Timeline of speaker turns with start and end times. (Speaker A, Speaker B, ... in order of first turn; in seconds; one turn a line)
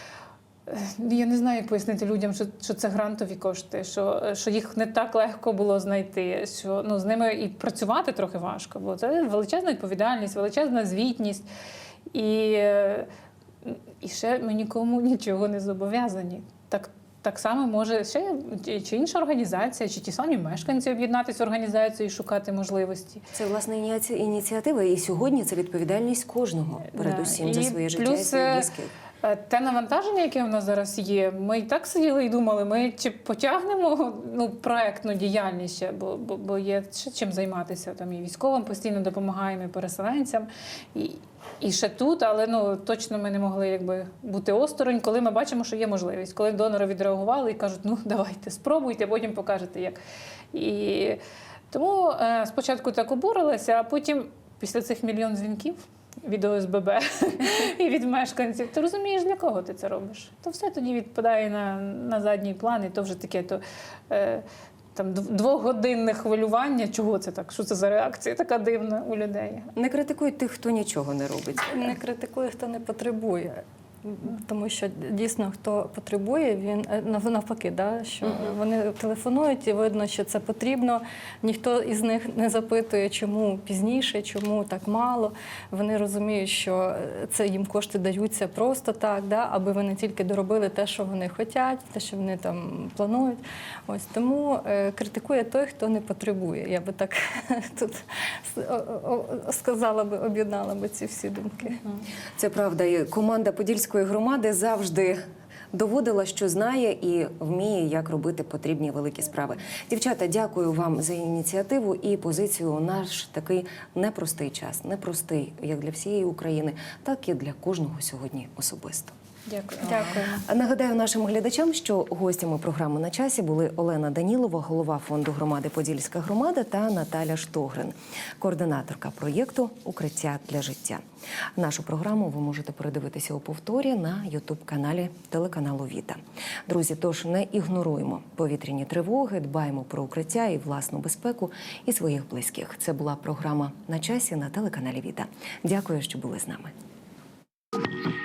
Speaker A: 0.7-11.5
Speaker A: 12.1-13.1
Speaker A: 13.6-23.3
Speaker B: 23.3-28.9
Speaker A: 26.9-28.7
Speaker A: 29.2-50.0
Speaker A: 50.5-51.2
Speaker A: 51.7-64.4
Speaker A: 65.0-69.7
Speaker B: 69.8-72.0
Speaker C: 71.7-101.8
Speaker B: 78.2-78.5
Speaker B: 102.4-105.2
Speaker B: 105.7-119.2
Speaker A: 119.5-120.2
Speaker B: 119.8-131.0
Speaker C: 119.8-120.4
Speaker B: 131.6-146.7